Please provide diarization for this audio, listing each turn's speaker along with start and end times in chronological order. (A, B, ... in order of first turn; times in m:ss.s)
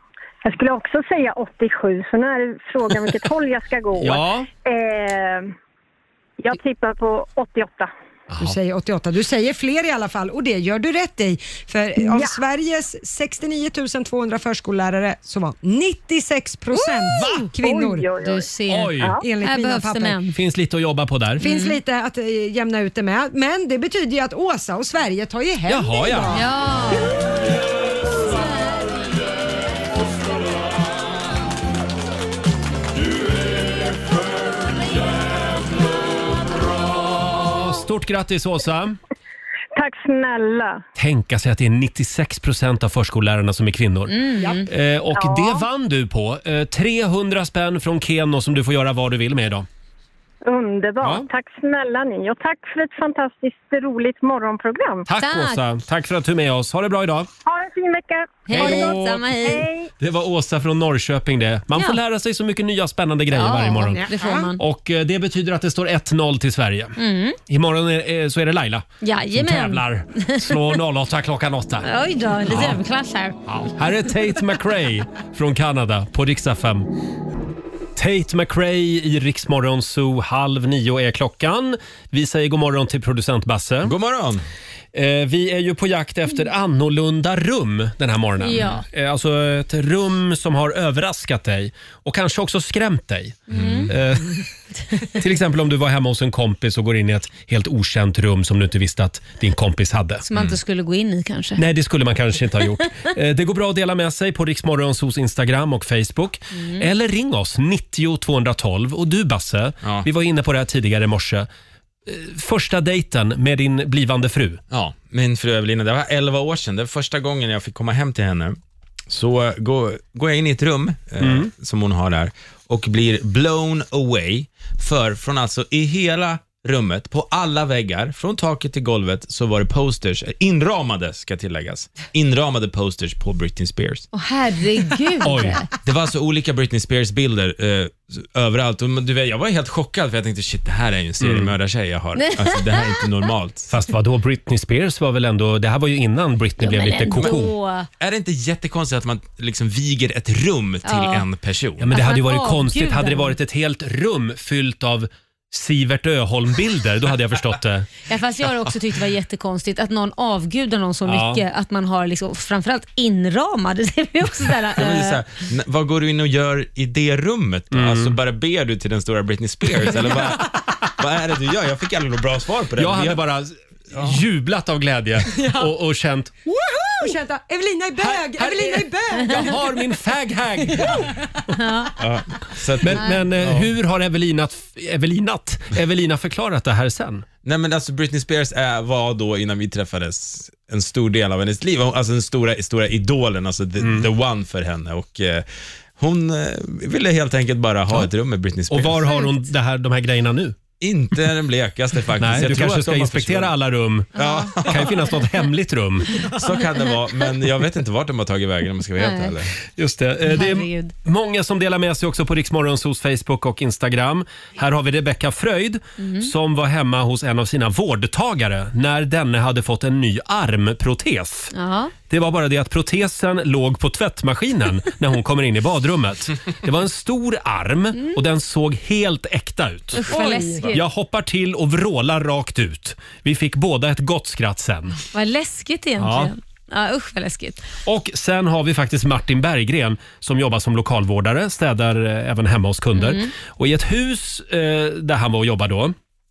0:00.4-0:05.5 A
0:04.0-0:04.5 B
0:06.4-0:07.9 A
0:08.3-0:08.6 B
0:08.4-0:18.1 C
0:12.0-0:12.4 A
0:17.1-0:17.5 D
0:17.1-0:17.5 B
0:17.6-0:18.5 A
0:18.2-0:20.4 D
0:18.7-0:19.2 B
0:19.2-0:20.2 C
0:20.4-0:21.4 B
0:21.4-0:26.5 C
0:21.4-0:21.8 D
0:25.7-0:26.4 B
0:26.3-0:27.1 D
0:37.1-0:39.0 B
0:39.8-0:40.8 A
0:41.0-0:44.2 B
0:44.1-0:44.7 D
0:44.7-0:49.7 B
0:45.1-0:45.6 A
0:50.4-0:55.1 A
0:51.0-0:51.3 B
0:55.1-0:57.3 B
0:55.2-0:55.6 D
0:57.4-0:59.9 A
0:58.5-0:59.7 D
0:58.5-0:59.3 B
1:00.0-1:04.0 B
1:03.3-1:04.6 D
1:04.0-1:04.5 C
1:04.6-1:11.9 B
1:07.0-1:07.4 D
1:09.0-1:10.8 D
1:11.8-1:13.4 D
1:12.5-1:12.8 B
1:13.5-1:16.9 B
1:18.0-1:24.0 B
1:23.8-1:24.4 E
1:24.9-1:34.4 B
1:28.4-1:28.8 D
1:33.5-1:33.9 D
1:33.5-1:33.9 E
1:35.0-1:40.3 B
1:40.3-1:41.6 D
1:41.6-1:51.5 B
1:46.6-1:46.9 D
1:52.1-1:54.6 B
1:54.7-1:58.6 E
1:59.1-2:14.1 E
2:01.2-2:01.5 B
2:14.1-2:15.7 D
2:15.2-2:15.6 B
2:15.8-2:23.7 E
2:21.2-2:21.5 B
2:22.2-2:23.1 D
2:23.7-2:27.5 B
2:26.6-2:27.9 D
2:27.2-2:27.4 E
2:28.0-2:31.9 E
2:30.8-2:31.2 D
2:31.8-2:37.9 B
2:31.9-2:33.4 D
2:38.1-2:45.2 D
2:41.1-2:41.4 B
2:44.8-2:53.2 E
2:47.7-2:48.2 B
2:49.8-2:50.3 B
2:52.8-2:56.4 B
2:53.9-2:54.2 E
2:55.3-2:55.7 C
2:56.5-2:59.8 C
2:58.0-3:01.1 B
3:01.5-3:01.9 D
3:02.0-3:03.7 E
3:02.8-3:07.2 B
3:07.4-3:15.5 E
3:13.8-3:14.1 B
3:16.0-3:19.1 E
3:18.7-3:20.6 B
3:20.8-3:23.6 E
3:22.2-3:26.2 B
3:24.2-3:25.1 E
3:24.2-3:25.2 D
3:26.3-3:29.6 E
3:29.0-3:29.4 D
3:29.7-3:41.5 B
3:30.3-3:30.9 D
3:36.0-3:36.3 D
3:41.5-3:41.9 D
3:42.1-3:50.2 B
3:49.9-3:50.9 D
3:50.0-3:50.7 C
3:50.7-3:55.0 B
3:55.1-3:57.7 D
3:56.0-3:56.3 B
3:57.9-4:06.0 B
4:03.0-4:03.3 D